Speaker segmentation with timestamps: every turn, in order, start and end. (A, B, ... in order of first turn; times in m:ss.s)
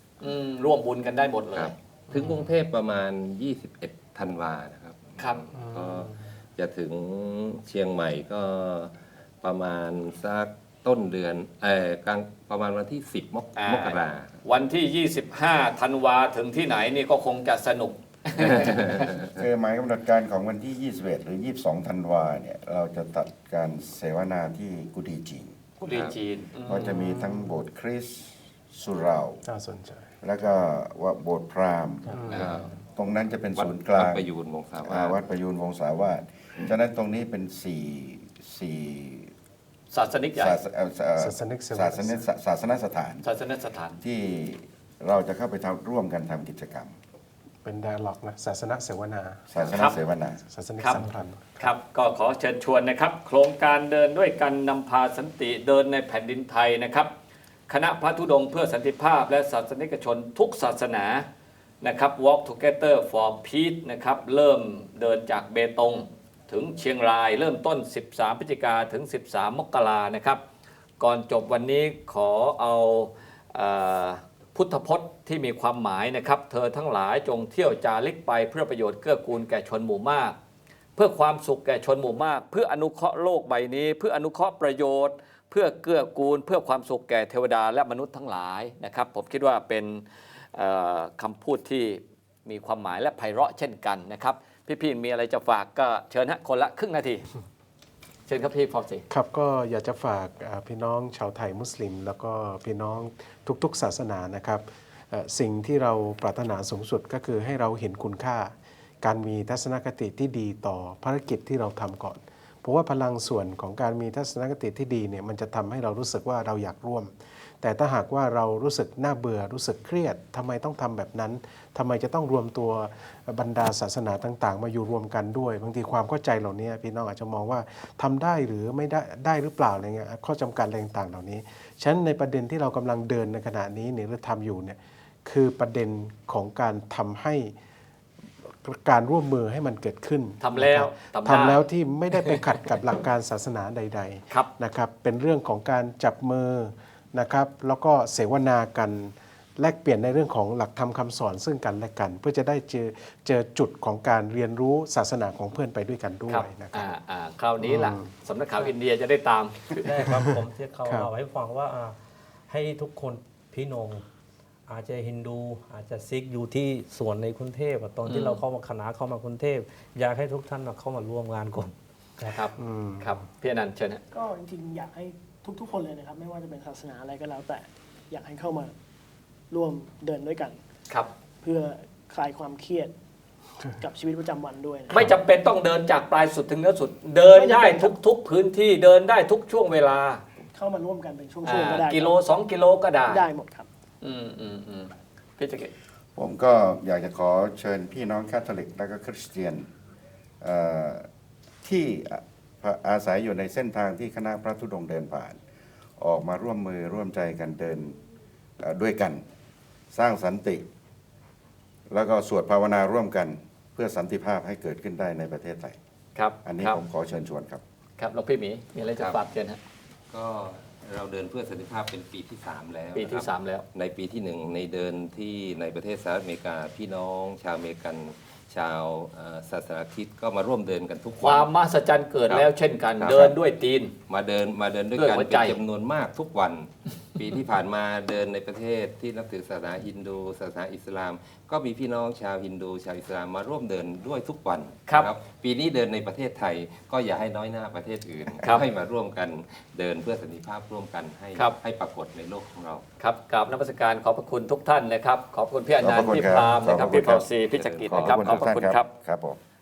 0:00.2-0:01.7 A
0:01.5-0:14.4 B
0:02.1-0:02.5 C
0:05.5-0:06.1 C
0:13.6-0:19.1 A
0:19.3-0:26.1 D
0:25.8-0:26.9 A
0:26.6-0:29.4 D
0:26.7-0:27.5 C
0:29.4-0:30.6 C
0:30.2-0:34.2 D
0:32.1-0:32.7 C
0:32.2-0:32.8 B
0:33.5-0:35.2 B
0:34.8-0:39.3 D
0:39.9-0:40.6 A
0:40.4-0:43.2 D
0:41.2-0:42.2 C
0:43.2-0:44.0 A
0:44.0-0:46.9 D
0:47.6-0:51.7 C
0:49.5-0:50.4 D
0:49.7-0:50.0 A
0:50.8-0:51.0 A
0:51.6-0:57.1 A
0:57.7-1:01.2 A
1:01.8-1:10.4 A
1:11.0-1:20.4 A
1:21.0-1:37.2 A
1:38.3-1:39.0 A
1:39.1-2:17.5 C
2:18.4-2:36.9 C
2:20.4-2:21.6 A
2:36.3-2:39.9 A
2:37.6-2:38.1 C
2:39.8-2:42.0 E
2:40.1-2:41.1 C
2:42.5-2:44.0 E
2:44.7-2:52.4 E
2:48.1-2:48.4 A
2:52.2-2:54.0 A
2:52.6-2:53.2 C
2:54.1-2:58.7 F
2:59.5-3:00.6 F
3:01.4-3:02.9 F
3:03.8-3:05.0 F
3:04.9-3:10.2 A
3:07.3-3:08.0 F
3:10.5-3:12.2 F
3:11.4-3:13.2 A
3:13.1-3:13.7 F
3:14.0-3:15.7 A
3:16.2-3:19.7 D
3:20.4-3:21.1 D
3:21.6-3:25.4 D
3:26.0-3:28.0 D
3:28.6-3:29.2 D
3:29.9-3:30.6 D
3:31.9-3:35.8 D
3:36.1-3:36.8 A
3:36.4-3:37.6 D
3:38.0-3:39.6 A
3:40.1-3:51.5 B
3:42.9-3:43.6 A
3:51.2-3:53.9 A
3:53.0-3:53.4 B
3:54.1-4:12.8 B
3:54.9-3:55.6 A
4:13.0-4:18.9 A
4:15.8-4:17.2 D
4:17.5-4:18.4 B
4:17.9-4:19.4 D